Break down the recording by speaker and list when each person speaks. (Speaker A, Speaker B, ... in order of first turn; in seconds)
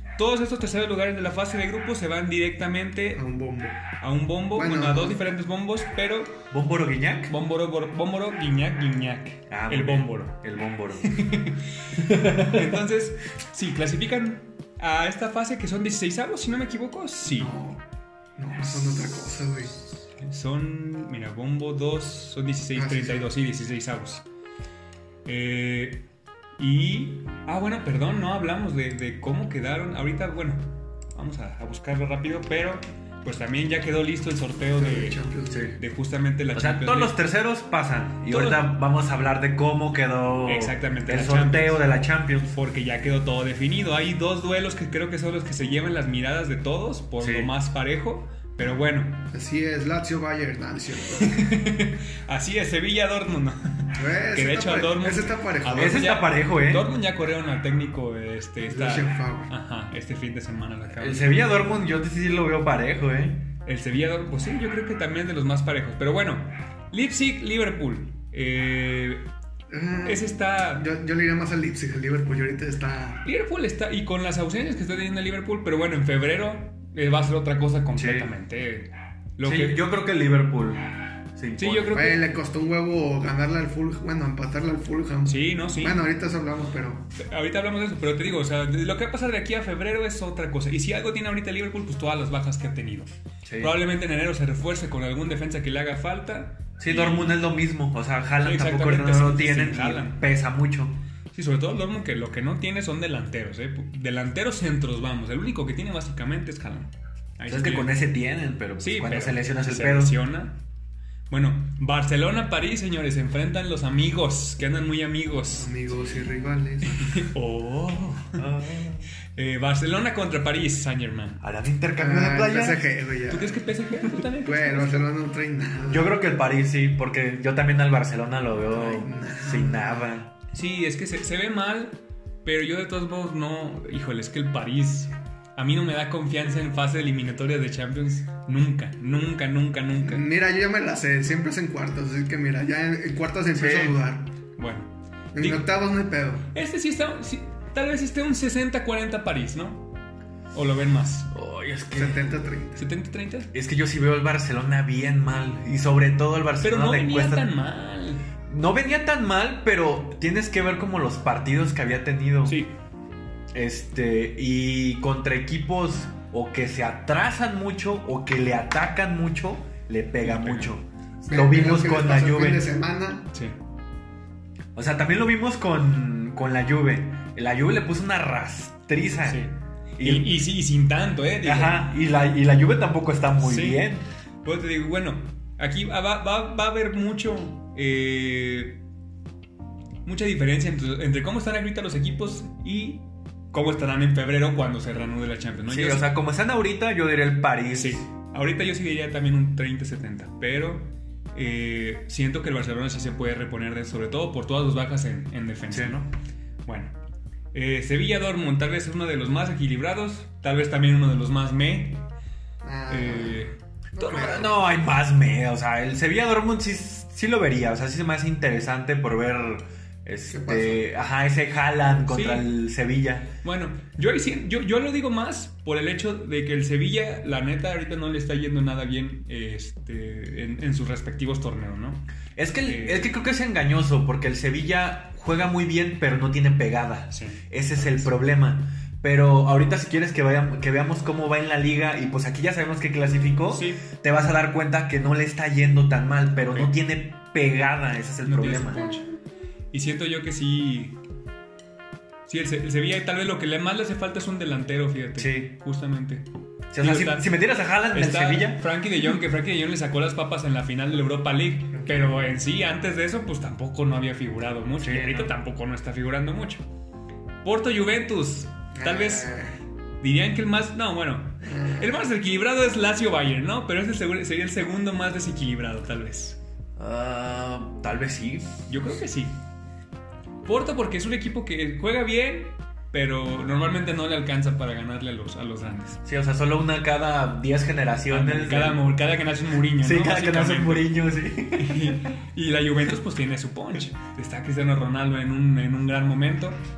Speaker A: 0.2-3.2, 4.0-6.4, 7.3-10.4, 11.1-17.5, 18.6-24.2, 25.2-26.1, 26.6-35.2, 35.8-37.1, 38.2-38.7, 40.5-41.9, 42.5-49.2, 51.1-61.5, 63.6-69.3, 70.0-70.8, 73.2-79.8, 81.6-82.2, 85.2-86.0, 87.1-97.4, 98.4-100.2, 101.3-107.9, 108.8-110.6, 111.3-115.7, 116.9-118.4, 119.3-121.4, 123.3-125.0, 130.5-140.2, 144.6-145.7, 146.5-149.9, 150.5-151.3, 152.8-153.5, 156.6-158.2, 162.4-162.7, 170.2-170.7, 179.2-181.9, 183.4-183.9, 184.4-188.8, 190.0-196.1, 197.7-206.1, 206.6-206.9, 207.5-212.1, 212.9-214.4, 222.1-222.5, 223.4-232.1, 232.6-233.1, 237.1-238.1, 243.5-243.8, 246.5-246.7, 248.2-249.1, 249.7-251.0, 252.3-256.2, 256.8-257.4, 257.9-266.6, 267.4-269.3, 270.0-276.4, 278.7-279.4, 280.4-286.0, 288.1-290.9, 291.5-296.6
Speaker B: 3.1-3.8, 4.5-5.2, 17.4-17.8, 18.4-19.7, 22.7-23.3, 34.8-35.7, 49.3-51.6, 53.9-56.0, 58.6-59.5, 69.7-73.2, 81.9-87.1, 115.5-117.3, 122.0-123.7, 124.2-126.2, 128.7-130.2, 140.0-144.3, 145.3-146.5, 151.9-152.8, 171.2-173.3, 212.6-214.6, 220.3-220.8, 261.7-262.3, 268.7-269.6, 271.4-272.0
Speaker C: 6.5-7.3, 9.5-11.2, 11.9-12.8, 35.5-35.8, 36.5-42.5, 47.2-47.5, 55.7-56.9, 61.0-63.5, 77.9-78.3, 79.4-81.9, 93.4-93.7, 96.8-101.0, 107.5-110.1, 118.3-119.0, 121.4-122.8, 125.9-130.3, 143.5-144.0, 151.3-152.4, 153.5-157.5, 158.5-162.6, 163.5-172.7, 174.7-179.4, 180.0-180.4, 181.4-184.1, 195.7-198.0, 205.7-206.0, 214.1-223.3, 232.3-248.8, 255.2-255.5, 256.7-258.6, 264.8-265.3, 276.8-278.6, 286.0-288.8, 289.8-292.1